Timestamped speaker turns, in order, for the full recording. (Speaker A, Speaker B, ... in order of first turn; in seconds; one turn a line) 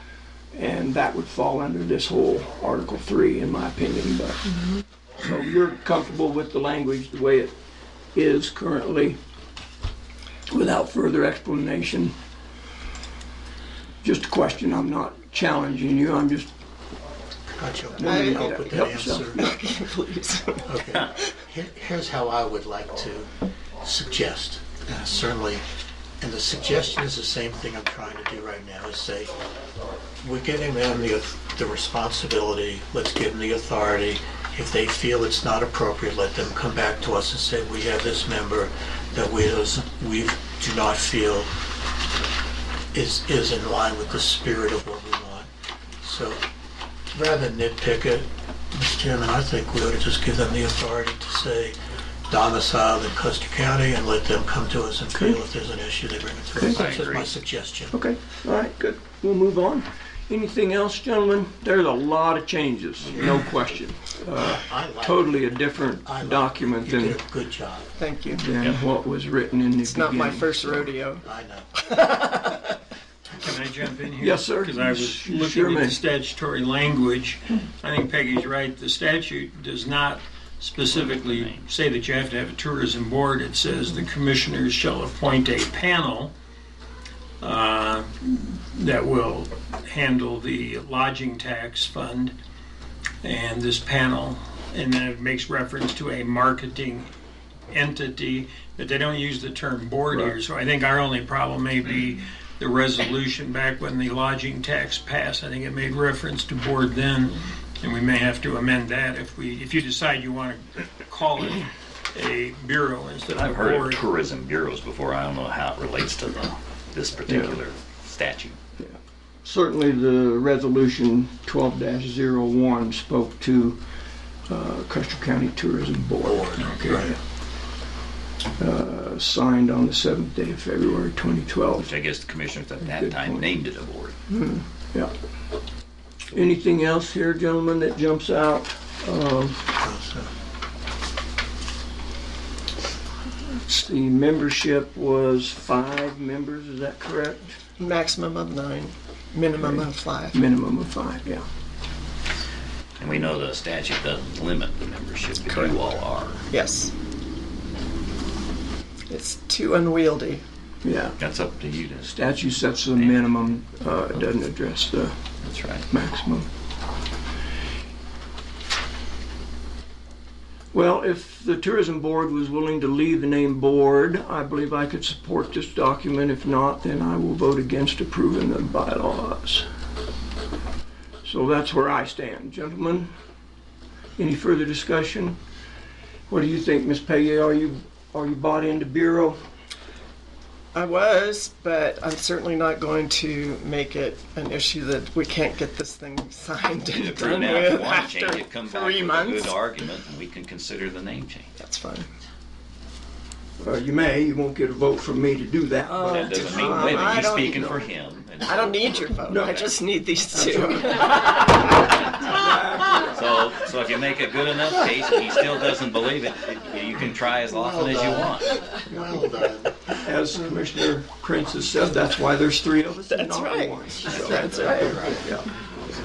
Speaker A: 0.5-4.6
Speaker A: 5.2-7.5
Speaker A: 8.1-9.2
Speaker A: 10.5-12.2
Speaker A: 14.0-16.5
Speaker B: 17.5-19.5
Speaker A: 18.0-19.4
Speaker C: 18.0-21.2
Speaker B: 20.6-25.6
Speaker B: 26.2-29.4
Speaker B: 30.2-41.5
Speaker B: 42.9-45.5
Speaker B: 46.0-46.4
Speaker B: 47.1-51.8
Speaker B: 52.3-57.9
Speaker A: 56.5-56.8
Speaker D: 56.7-57.3
Speaker A: 57.9-67.2
Speaker B: 63.1-63.4
Speaker B: 64.4-65.5
Speaker B: 66.0-67.9
Speaker C: 68.0-68.4
Speaker A: 68.3-70.9
Speaker C: 69.8-71.2
Speaker B: 71.2-71.8
Speaker C: 71.8-72.7
Speaker E: 73.3-86.3
Speaker A: 74.2-76.0
Speaker D: 80.9-81.7
Speaker E: 87.4-92.3
Speaker E: 93.2-97.1
Speaker E: 97.7-114.0
Speaker A: 100.1-100.3
Speaker D: 113.3-118.5
Speaker A: 117.3-117.6
Speaker A: 118.8-123.8
Speaker A: 124.5-127.2
Speaker B: 126.2-127.2
Speaker E: 126.6-127.0
Speaker A: 128.6-131.9
Speaker D: 131.8-134.2
Speaker A: 132.8-133.5
Speaker A: 134.3-135.1
Speaker A: 136.3-139.7
Speaker B: 139.8-140.3
Speaker A: 143.4-147.6
Speaker C: 147.8-150.4
Speaker A: 149.6-151.4
Speaker D: 153.0-156.4
Speaker C: 155.5-155.8
Speaker C: 156.5-156.9
Speaker C: 159.1-160.4
Speaker A: 160.8-161.2
Speaker D: 161.2-162.2
Speaker A: 162.1-165.1
Speaker D: 165.4-165.9
Speaker A: 165.9-166.5
Speaker A: 170.7-179.7
Speaker A: 181.2-183.1
Speaker A: 184.2-185.4
Speaker A: 186.3-189.4
Speaker C: 190.7-199.6
Speaker D: 196.8-201.5
Speaker C: 201.6-202.1
Speaker A: 203.6-207.6
Speaker D: 206.1-209.7
Speaker C: 206.1-212.3
Speaker A: 210.3-213.2
Speaker D: 213.1-218.5
Speaker B: 217.5-220.5
Speaker A: 220.0-225.5
Speaker C: 223.1-225.1
Speaker B: 224.7-225.2